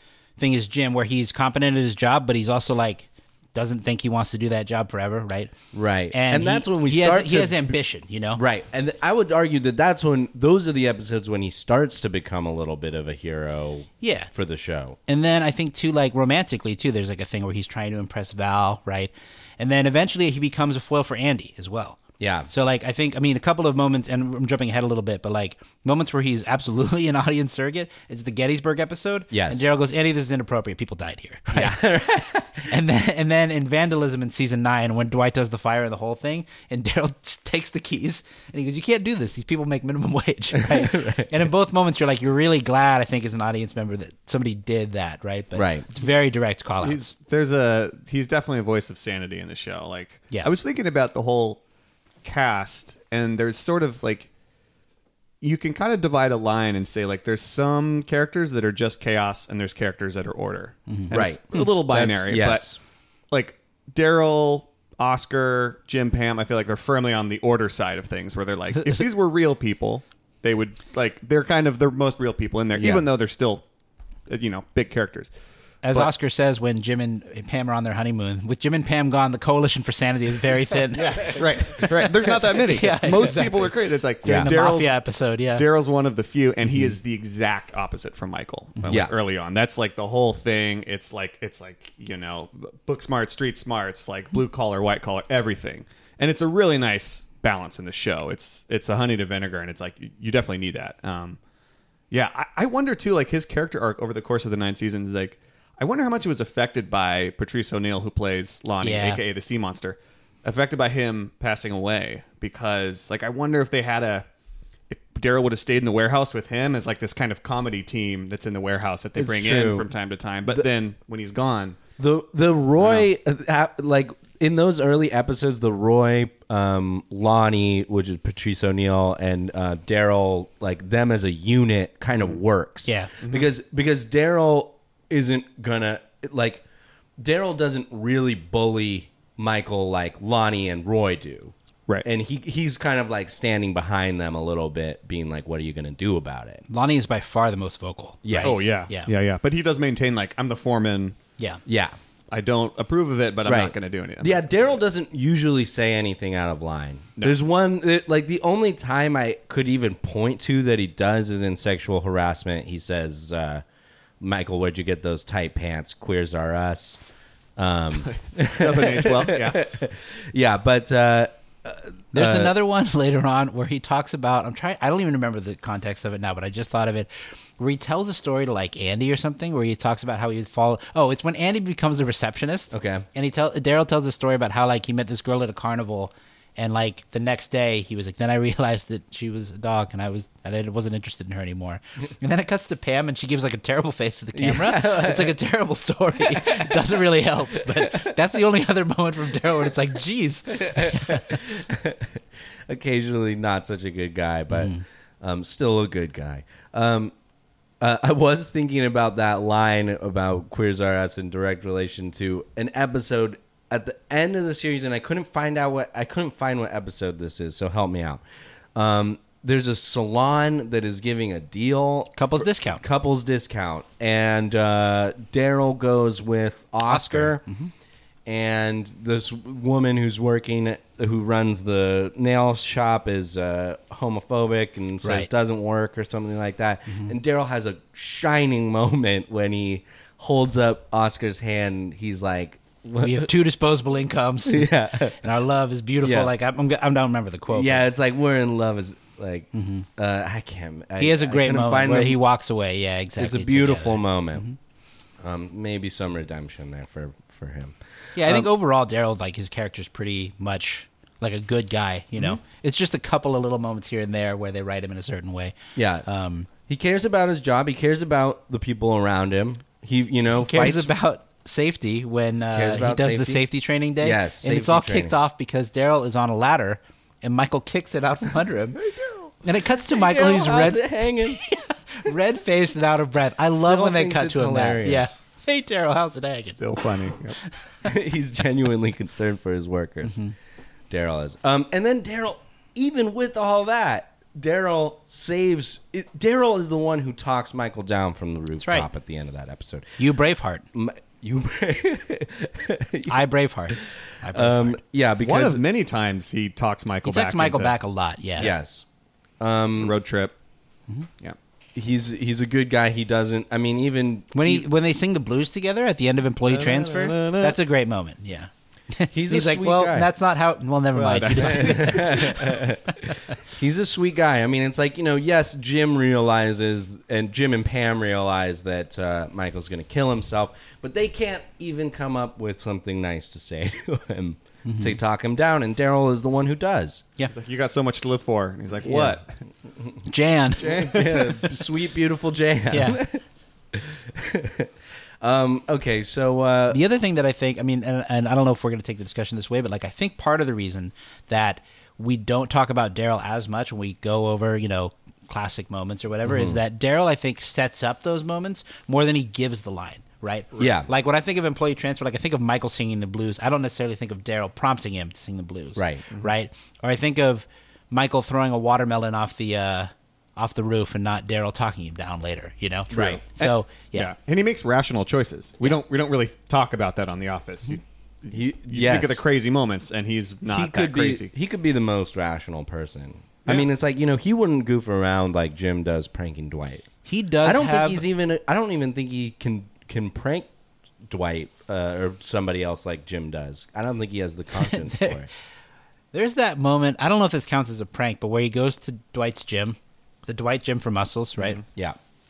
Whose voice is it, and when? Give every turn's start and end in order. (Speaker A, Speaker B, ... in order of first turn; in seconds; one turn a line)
Speaker A: 0.4-5.5
Speaker B: 5.7-7.7
Speaker A: 6.1-8.4
Speaker B: 8.3-15.0
Speaker A: 14.0-14.3
Speaker A: 15.1-31.9
Speaker B: 22.2-22.5
Speaker B: 29.3-29.7
Speaker B: 31.5-32.7
Speaker A: 32.7-47.1
Speaker B: 40.5-41.3
Speaker B: 45.6-45.9
Speaker C: 46.8-51.6
Speaker C: 52.2-54.3
Speaker C: 55.4-62.7
Speaker B: 61.1-62.8
Speaker C: 63.3-73.6
Speaker A: 68.8-69.0
Speaker B: 72.8-73.1
Speaker C: 74.3-75.3
Speaker A: 75.8-85.7
Speaker C: 81.0-85.0
Speaker B: 81.0-81.4
Speaker B: 84.2-84.5
Speaker C: 85.5-101.4
Speaker C: 102.1-114.3
Speaker A: 108.8-109.2
Speaker C: 114.9-121.8
Speaker B: 119.2-119.9
Speaker B: 122.0-136.6
Speaker C: 122.8-123.1
Speaker A: 132.9-133.1
Speaker C: 133.2-133.5
Speaker B: 137.2-146.6
Speaker A: 146.7-149.1
Speaker B: 148.2-148.7
Speaker C: 148.4-151.2
Speaker B: 151.7-152.0
Speaker C: 152.3-154.7
Speaker B: 153.4-163.6
Speaker B: 164.2-167.0
Speaker B: 167.6-172.6
Speaker C: 168.1-169.6
Speaker A: 172.1-201.3
Speaker B: 182.7-183.1
Speaker B: 194.3-195.4
Speaker B: 196.2-197.0
Speaker B: 197.5-198.2
Speaker B: 200.5-207.1
Speaker A: 204.5-204.8
Speaker B: 207.8-218.2
Speaker B: 218.8-227.4
Speaker A: 222.2-222.8
Speaker A: 226.8-227.7
Speaker B: 228.3-243.3
Speaker A: 235.0-235.3
Speaker A: 236.9-237.2
Speaker A: 243.0-247.8
Speaker B: 244.5-245.2
Speaker B: 246.0-246.3
Speaker B: 247.5-252.2
Speaker A: 249.5-249.9
Speaker A: 251.0-254.6
Speaker B: 253.2-254.4
Speaker B: 255.2-258.5
Speaker A: 258.2-265.5
Speaker B: 262.1-262.4
Speaker B: 265.8-266.1
Speaker A: 266.1-266.5
Speaker B: 266.7-270.9
Speaker A: 270.4-278.8
Speaker B: 272.4-273.4
Speaker B: 274.0-275.2
Speaker B: 278.9-279.3
Speaker A: 279.4-286.6
Speaker B: 279.9-281.4
Speaker B: 283.5-285.1
Speaker C: 286.4-287.4
Speaker A: 287.4-287.9
Speaker B: 287.8-290.2
Speaker A: 290.0-290.3
Speaker B: 290.9-300.0
Speaker A: 298.6-298.9
Speaker A: 300.0-300.7
Speaker B: 300.7-305.6
Speaker A: 303.1-304.8
Speaker C: 305.2-307.8
Speaker A: 307.0-308.5
Speaker B: 308.4-308.9
Speaker B: 309.4-310.0
Speaker C: 309.8-310.4
Speaker B: 311.8-314.7
Speaker A: 314.3-323.2
Speaker C: 316.5-317.6
Speaker B: 319.1-320.1
Speaker B: 321.0-337.1
Speaker C: 321.0-322.0
Speaker A: 334.6-335.0
Speaker C: 337.3-339.3
Speaker B: 338.9-339.2
Speaker A: 340.1-340.9
Speaker B: 340.6-343.2
Speaker C: 340.6-341.4
Speaker A: 342.7-343.0
Speaker B: 343.7-344.7
Speaker B: 345.2-346.8
Speaker A: 346.7-374.1
Speaker B: 356.2-356.6
Speaker B: 360.6-360.9
Speaker B: 365.8-366.1
Speaker C: 372.9-381.3
Speaker B: 372.9-373.2
Speaker B: 378.3-379.2
Speaker B: 380.5-386.9
Speaker A: 387.1-388.0
Speaker B: 387.4-390.5
Speaker B: 391.1-395.3
Speaker A: 394.6-395.2
Speaker A: 396.1-401.6